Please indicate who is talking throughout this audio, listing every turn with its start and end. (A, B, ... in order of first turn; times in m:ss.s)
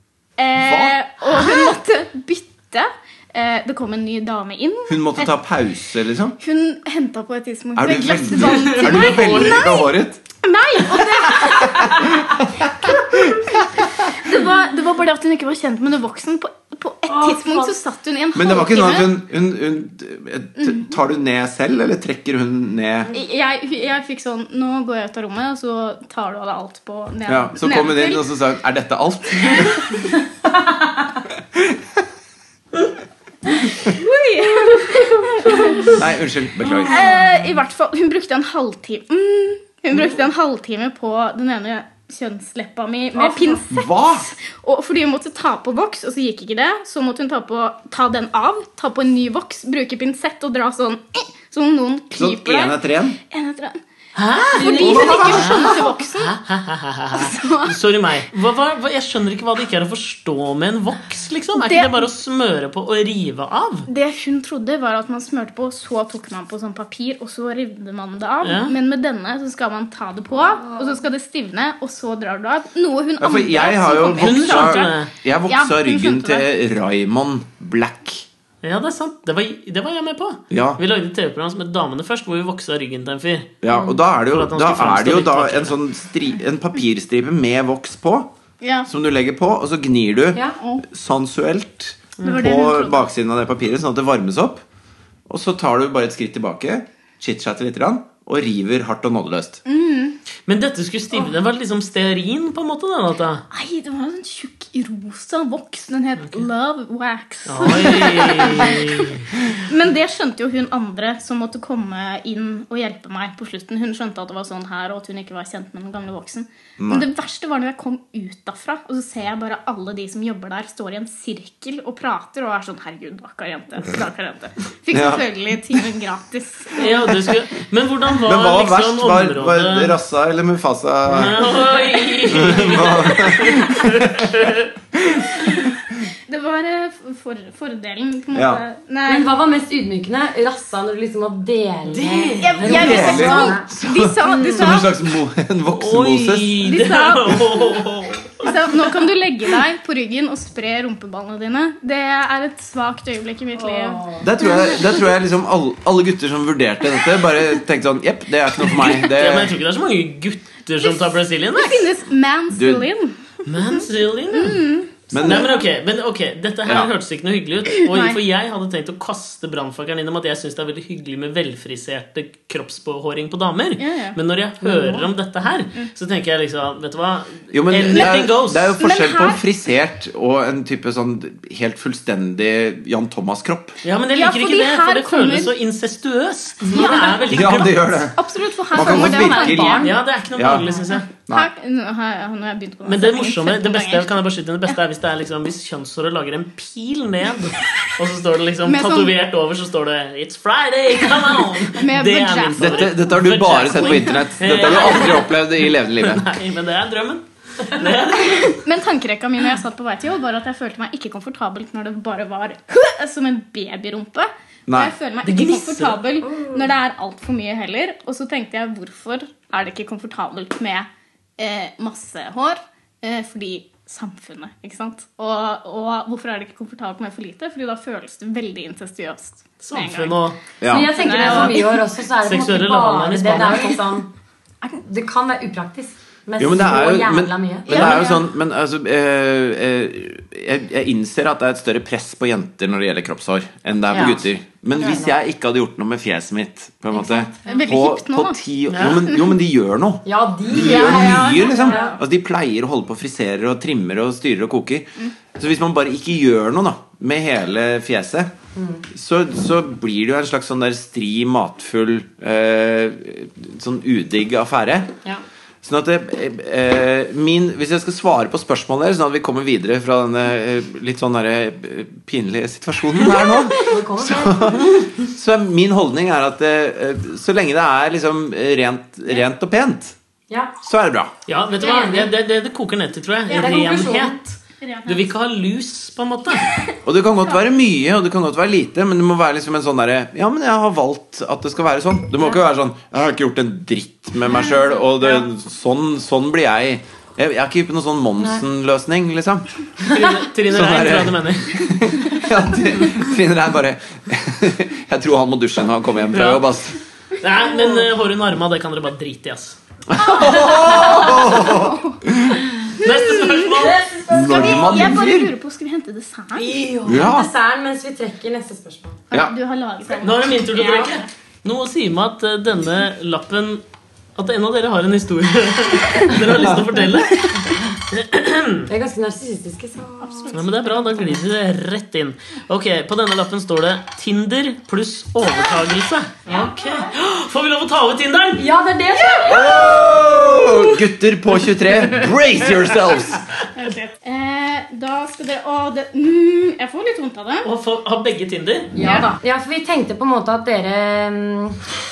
0:00.4-0:05.3 A
0:00.6-0:01.0 B
0:04.9-0:06.4 B
0:06.4-0:12.2 A
0:07.8-0:10.2 B
0:08.6-0:09.6 C
0:11.0-0:13.6 B
0:14.1-0:19.2 A
0:17.1-0:17.7 D
0:18.3-0:23.1 B
0:20.6-0:20.9 A
0:23.1-0:28.3 A
0:27.3-0:29.9 B
0:31.5-0:31.8 B
0:33.9-0:36.0 A
0:34.6-0:35.9 D
0:35.9-0:37.0 B
0:36.9-0:53.8 A
0:43.1-0:43.6 D
0:43.7-0:44.3 B
0:52.2-0:53.2 B
0:54.1-1:03.9 C
0:54.5-0:56.4 A
0:54.6-0:55.8 D
0:54.8-0:55.4 B
0:57.1-0:57.7 A
1:01.6-1:02.0 A
1:03.9-1:16.5 A
1:08.4-1:08.7 C
1:13.2-1:18.2 B
1:14.2-1:15.1 C
1:18.6-1:23.5 C
1:20.5-1:20.8 B
1:23.6-1:28.3 B
1:23.7-1:24.0 D
1:24.2-1:25.8 C
1:28.6-1:28.9 A
1:28.9-1:34.6 B
1:32.2-1:33.1 A
1:35.3-1:39.6 B
1:39.6-1:40.2 A
1:40.5-1:43.4 C
1:43.5-2:07.0 A
1:46.2-1:46.4 C
1:47.4-1:49.3 C
1:56.8-1:57.0 B
2:04.9-2:05.2 B
2:06.8-2:09.9 C
2:08.2-2:11.4 B
2:11.1-2:14.7 C
2:12.3-2:14.3 B
2:15.0-2:15.5 B
2:16.3-2:19.3 A
2:18.3-2:18.6 B
2:19.0-2:23.7 D
2:21.9-2:23.1 C
2:22.4-2:25.0 A
2:22.6-2:26.6 B
2:24.2-2:24.7 D
2:25.7-2:28.6 C
2:26.6-2:27.6 A
2:28.4-2:34.9 A
2:33.6-2:34.3 D
2:34.2-2:39.6 B
2:38.9-2:41.9 C
2:40.8-2:43.2 A
2:42.5-2:42.9 B
2:43.4-2:44.7 C
2:43.7-2:45.7 A
2:45.1-2:45.5 B
2:45.2-2:58.7 C
2:47.9-2:48.2 A
2:53.8-2:54.2 A
2:54.6-2:55.1 D
2:57.5-3:03.8 B
2:58.8-2:59.4 A
3:03.8-3:08.0 C
3:04.1-3:05.5 A
3:06.6-3:07.1 D
3:06.7-3:07.5 A
3:07.3-3:08.2 B
3:08.1-3:09.9 A
3:08.7-3:10.7 B
3:08.8-3:09.9 D
3:09.8-3:11.1 C
3:11.1-3:14.1 A
3:12.8-3:28.6 C
3:18.6-3:19.1 A
3:21.7-3:23.0 A
3:22.6-3:26.3 B
3:23.7-3:24.1 A
3:28.2-3:51.8 A
3:34.7-3:34.9 B
3:35.2-3:36.0 C
3:36.3-3:36.6 D
3:49.6-3:50.4 C
3:50.6-3:51.5 B
3:50.6-3:54.1 D
3:52.2-3:53.8 C
3:54.6-3:58.1 D
3:56.4-4:18.3 B
3:57.7-3:58.2 A
4:03.9-4:04.2 D
4:04.8-4:05.1 D
4:06.9-4:07.6 D
4:07.4-4:08.4 A
4:08.7-4:09.0 C
4:10.0-4:12.0 D
4:10.6-4:12.0 A
4:18.6-4:18.8 D
4:18.9-4:24.9 B
4:25.6-4:40.0 B
4:33.5-4:34.9 D
4:40.3-4:40.5 D
4:40.6-4:41.1 B
4:41.3-4:44.4 C
4:41.6-4:42.1 D
4:43.3-4:43.7 A
4:43.3-4:44.2 D
4:44.6-4:45.1 A
4:44.9-4:46.5 C
4:46.8-4:59.4 B
4:59.9-5:00.2 D
4:59.9-5:01.7 C
5:00.5-5:06.8 B
5:06.1-5:06.4 C
5:07.2-5:09.6 C
5:09.9-5:12.5 B
5:10.2-5:11.9 A
5:10.7-5:11.3 D
5:12.8-5:13.8 C
5:12.8-5:13.4 A
5:13.5-5:15.0 D
5:14.1-5:15.3 B
5:14.1-5:16.5 A
5:16.4-5:19.0 D
5:16.8-5:17.3 B
5:19.1-5:21.1 A
5:20.0-5:23.6 C
5:24.2-5:27.3 C
5:26.3-5:27.3 B
5:27.9-5:28.7 C
5:28.7-5:30.3 D
5:30.0-5:30.4 A
5:30.3-5:38.5 C
5:38.4-5:39.8 D
5:39.0-5:43.2 B
5:43.6-5:47.5 A
5:47.4-5:48.8 C
5:48.7-5:51.6 D
5:48.8-5:49.2 A